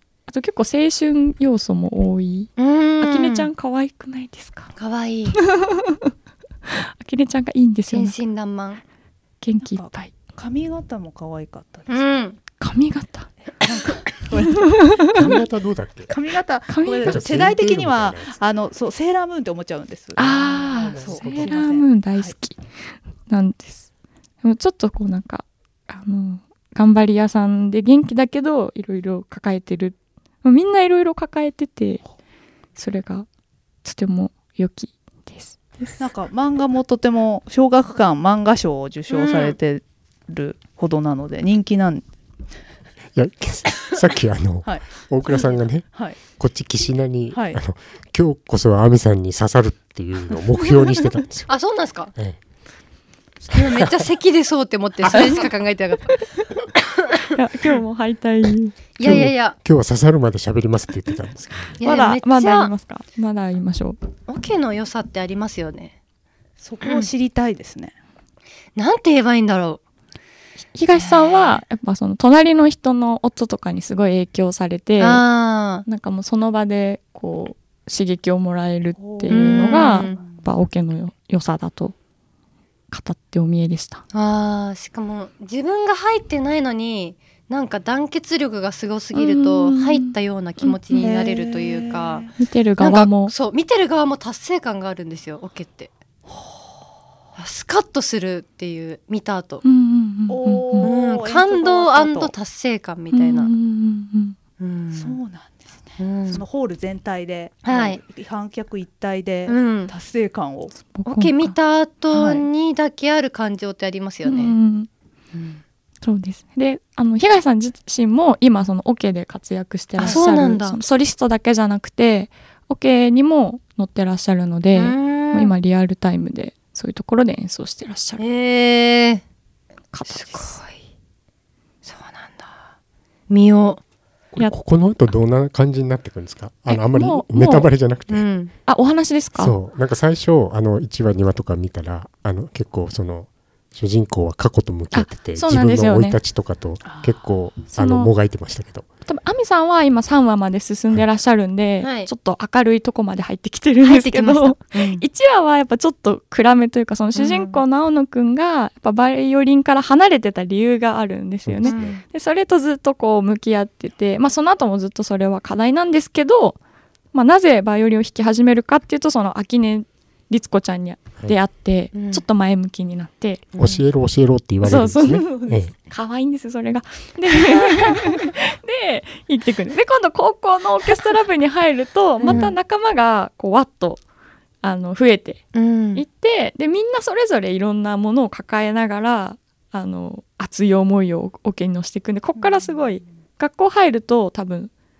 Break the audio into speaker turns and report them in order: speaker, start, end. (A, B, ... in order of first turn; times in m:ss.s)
0:00.3-0:04.7 A
0:02.6-0:03.5 B
0:04.8-0:05.4 B
0:05.4-0:06.1 A
0:06.6-0:08.1 A
0:07.9-0:08.8 B
0:09.4-0:10.1 A
0:09.6-0:12.0 C
0:11.9-0:12.4 B
0:12.6-0:13.3 A
0:13.6-0:15.4 C
0:14.7-0:15.3 A
0:15.1-0:16.1 D
0:16.1-0:22.4 C
0:16.7-0:17.2 A
0:17.0-0:18.3 D
0:20.2-0:23.8 A
0:20.2-0:20.6 B
0:24.4-0:32.0 A
0:32.7-0:33.3 A
0:33.8-0:36.0 A
0:36.0-0:42.0 C
0:39.1-0:39.5 B
0:43.1-0:51.5 D
0:44.6-0:46.2 C
0:47.3-0:47.6 C
0:50.7-0:51.0 C
0:51.5-0:52.1 B
0:53.5-0:54.0 D
0:53.5-0:56.2 B
0:57.0-0:57.2 B
0:57.3-0:58.8 A
0:59.0-0:59.6 B
0:59.0-1:01.8 D
1:01.8-1:02.7 B
1:01.8-1:04.0 A
1:04.3-1:05.9 B
1:06.6-1:07.9 C
1:06.8-1:07.1 B
1:08.7-1:09.8 B
1:10.7-1:15.2 A
1:10.9-1:11.6 B
1:15.0-1:15.8 B
1:15.8-1:22.0 A
1:19.0-1:20.5 C
1:19.3-1:20.2 B
1:22.9-1:24.0 A
1:24.1-1:35.9 B
1:29.1-1:30.7 A
1:30.9-1:32.3 C
1:32.4-1:33.3 A
1:37.4-1:39.6 B
1:39.6-1:40.9 A
1:40.3-1:42.3 C
1:40.8-1:43.5 B
1:43.1-1:44.4 A
1:44.6-1:45.2 B
1:44.9-1:50.7 C
1:46.0-1:46.4 B
1:47.6-1:48.0 B
1:49.5-1:49.9 B
1:50.9-1:51.6 A
1:51.0-1:54.5 B
1:52.1-1:52.4 A
1:54.2-1:54.9 A
1:55.3-1:55.6 B
1:56.0-2:08.2 A
2:00.0-2:00.8 B
2:04.7-2:05.5 B
2:08.2-2:09.2 B
2:09.9-2:10.6 A
2:10.1-2:10.8 B
2:11.8-2:12.6 B
2:13.3-2:13.8 B
2:14.3-2:18.3 D
2:16.7-2:17.7 A
2:18.1-2:18.5 B
2:18.7-2:19.6 A
2:19.4-2:28.8 D
2:24.9-2:26.2 A
2:26.8-2:27.2 C
2:27.7-2:28.1 A
2:29.0-2:46.6 A
2:31.8-2:32.1 B
2:33.8-2:35.0 B
2:37.1-2:37.6 B
2:41.4-2:42.0 D
2:41.6-2:42.0 B
2:47.1-2:53.4 A
2:51.9-2:52.2 B
2:53.5-2:53.8 B
2:53.6-2:55.7 D
2:54.6-3:04.0 A
3:02.2-3:02.5 B
3:04.6-3:05.4 A
3:05.5-3:06.0 B
3:05.9-3:14.7 A